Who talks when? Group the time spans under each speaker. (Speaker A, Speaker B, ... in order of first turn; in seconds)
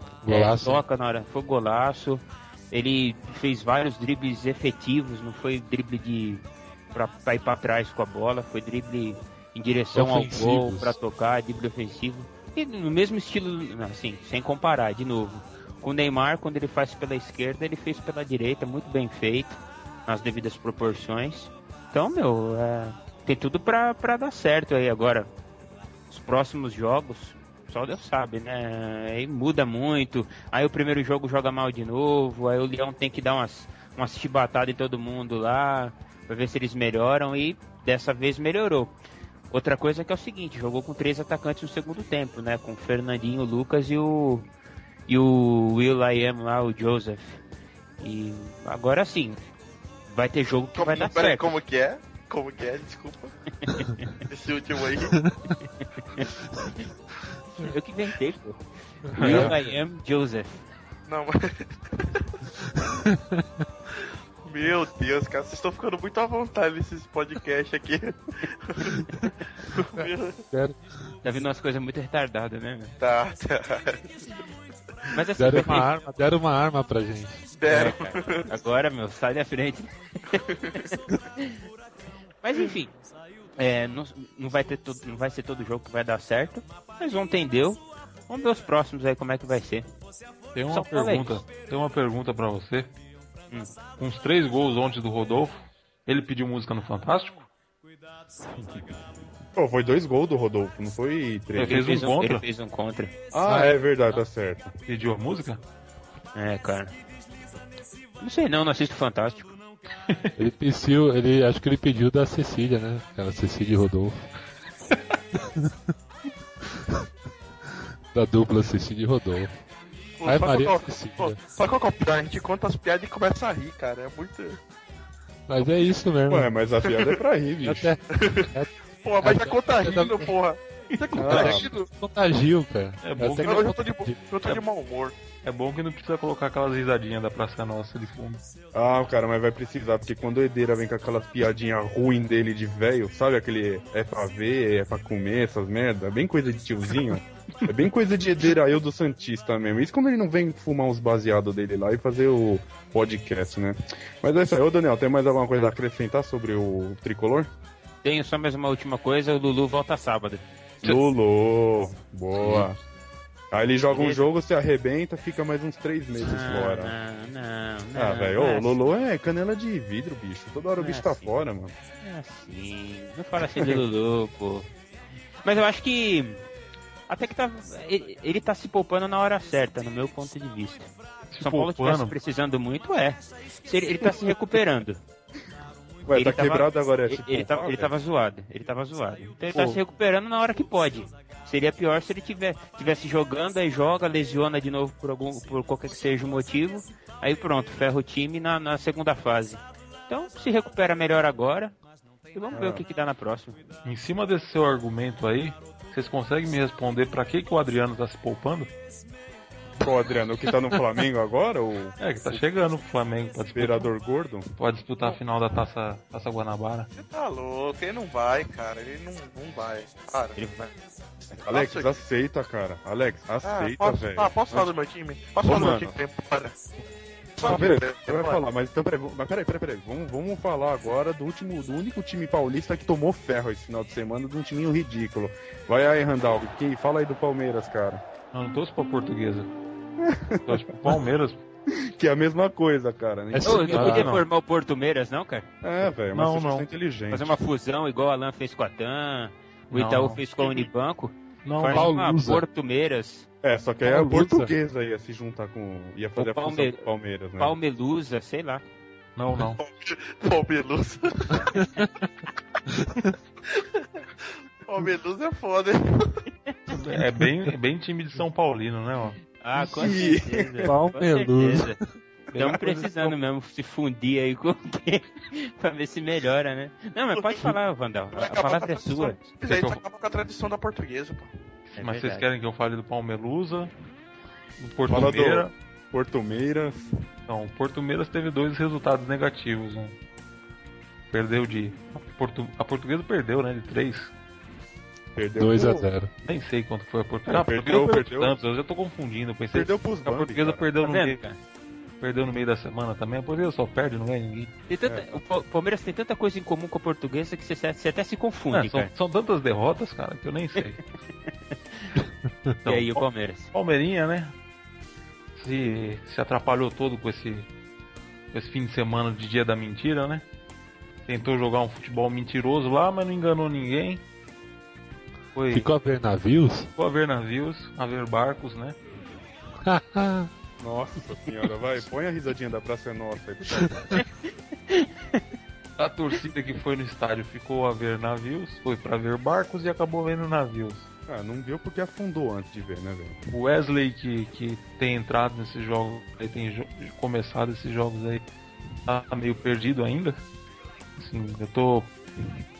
Speaker A: 0.2-0.8, 9.9-11.0, 55.1-55.6, 59.1-59.6, 62.9-63.6, 69.0-69.3, 70.5-70.8, 75.4-77.5, 103.5-103.7, 110.4-114.3, 115.4-115.7, 116.6-117.0, 118.1-119.5, 120.2-121.4, 125.5-126.5, 127.6-130.3, 131.1-134.6, 243.3-244.1, 251.7-252.4, 253.8-254.5, 261.6-261.9, 262.8-263.1, 270.6-271.8, 295.4-296.1, 325.5-326.7, 329.6-330.3
Speaker B: 0.3-25.3, 26.1-38.9, 39.5-44.5, 45.1-47.4, 48.0-49.4, 50.1-51.5, 53.7-54.1, 56.0-56.8, 57.6-60.6, 71.2-72.9, 75.1-75.9, 77.7-81.5, 82.4-82.9, 83.6-89.9, 90.7-91.4, 101.7-103.1, 106.3-106.9, 108.2-109.6, 158.0-161.0, 162.4-162.7, 163.9-164.2, 166.2-168.8, 170.8-171.3, 172.0-174.7, 175.4-176.4, 177.1-185.0, 186.1-201.8, 202.3-203.6, 220.4-220.7, 243.4-245.5, 247.1-253.3, 256.2-256.8, 257.4-258.6, 269.4-271.8, 272.3-279.2, 281.7-282.3, 300.8-301.4, 304.7-308.9, 312.6-313.5, 334.7-335.2
Speaker C: 50.8-53.3, 54.3-55.2, 61.1-62.2, 64.4-70.4, 73.0-74.2, 77.5-78.5, 80.5-80.8, 120.2-124.6, 128.1-131.8, 133.4-135.1, 216.9-220.4, 221.4-222.0, 223.4-226.6, 227.4-228.4, 259.6-261.6, 263.5-264.0, 264.6-266.2, 269.9-270.2, 277.1-277.6, 278.1-281.3
Speaker D: 59.2-59.6, 90.5-93.0, 94.0-97.5, 101.5-102.4, 104.9-105.6, 133.0-133.7, 135.4-138.4, 181.3-182.1, 203.8-208.7, 212.0-213.9, 214.6-216.9, 238.3-239.5, 240.4-241.4, 243.6-244.2, 246.1-246.7, 249.7-250.2, 251.4-251.9, 259.1-259.6, 266.7-269.2, 272.3-273.1, 279.5-279.8, 281.7-283.7, 284.6-285.5, 287.3-290.0, 291.1-294.1, 296.2-301.2, 302.0-304.5, 308.5-310.8, 312.6-314.3, 315.4-317.5, 318.3-320.2, 321.1-324.0, 325.4-325.7, 326.8-328.8, 335.8-340.9, 343.3-348.2, 348.9-350.2, 351.0-351.9
Speaker E: 99.6-101.8, 103.3-104.7, 126.3-127.9, 131.2-131.6, 138.7-157.5, 160.8-162.8, 163.5-166.9, 168.0-171.7, 186.1-187.9, 202.5-202.8, 209.8-212.4, 213.5-214.5, 221.5-224.7, 225.4-226.0, 227.4-238.0, 240.0-240.6, 242.0-243.9, 245.6-247.4, 253.4-257.6, 269.6-270.5, 284.9-286.9, 295.1-295.9, 297.3-298.4, 299.5-300.6, 304.9-305.2, 330.6-334.0, 341.1-343.2